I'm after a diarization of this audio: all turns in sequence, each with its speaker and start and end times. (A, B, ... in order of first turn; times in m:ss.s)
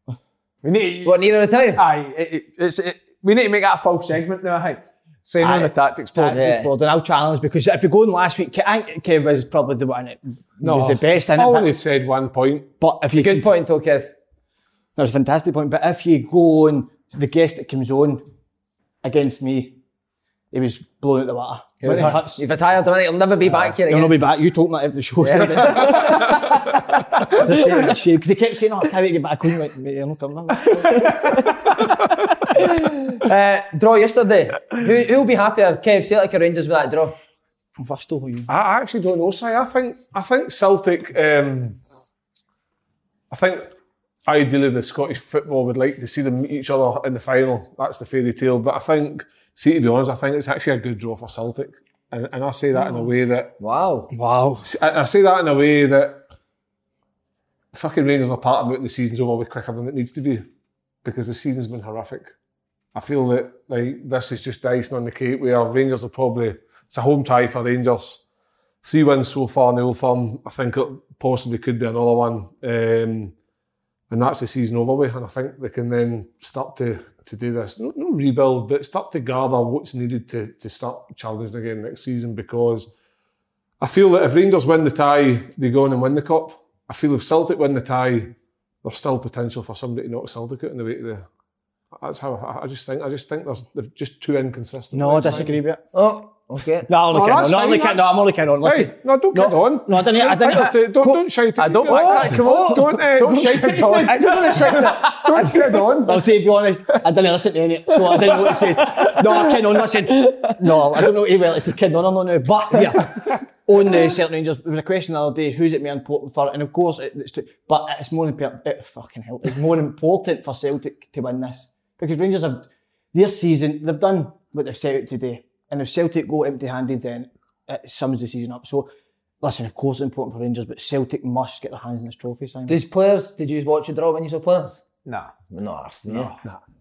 0:00.6-0:06.4 A
0:01.0-0:01.8 B
0:05.4-0:11.7 C
0:06.3-0:06.7 B
0:10.6-0:12.7 D
0:12.8-0:13.5 C
0:13.1-0:14.1 B
0:15.0-0:18.2 C
0:19.0-0:19.8 C
0:20.5-0:22.4 C
0:21.8-0:24.2 B
0:23.8-0:26.2 C
0:25.2-0:26.8 B
0:27.3-0:31.3 C
0:31.1-0:31.4 B
0:32.6-0:37.1 B
0:37.8-0:38.5 C
0:38.5-0:41.8 D
0:43.3-0:43.7 D
0:44.3-0:53.5 D
0:53.6-0:54.1 B
0:54.1-0:54.6 C
0:54.6-0:56.2 D
0:57.7-1:00.4 D
1:01.0-1:02.3 D
1:02.9-1:08.2 D
1:08.8-1:13.3 D
1:14.1-1:22.9 D
1:23.8-1:31.2 D
1:32.0-1:35.6 D
1:34.9-1:35.8 C
1:35.9-1:36.9 B
1:36.9-1:40.8 C
1:37.1-1:46.2 D
1:41.0-1:42.8 B
1:41.6-1:45.5 A
1:44.0-1:45.7 B
1:46.0-2:08.9 C
1:50.1-1:50.6 B
2:09.4-2:12.8 C
2:12.7-2:14.8 B
2:15.0-2:15.3 A
2:15.5-2:16.3 B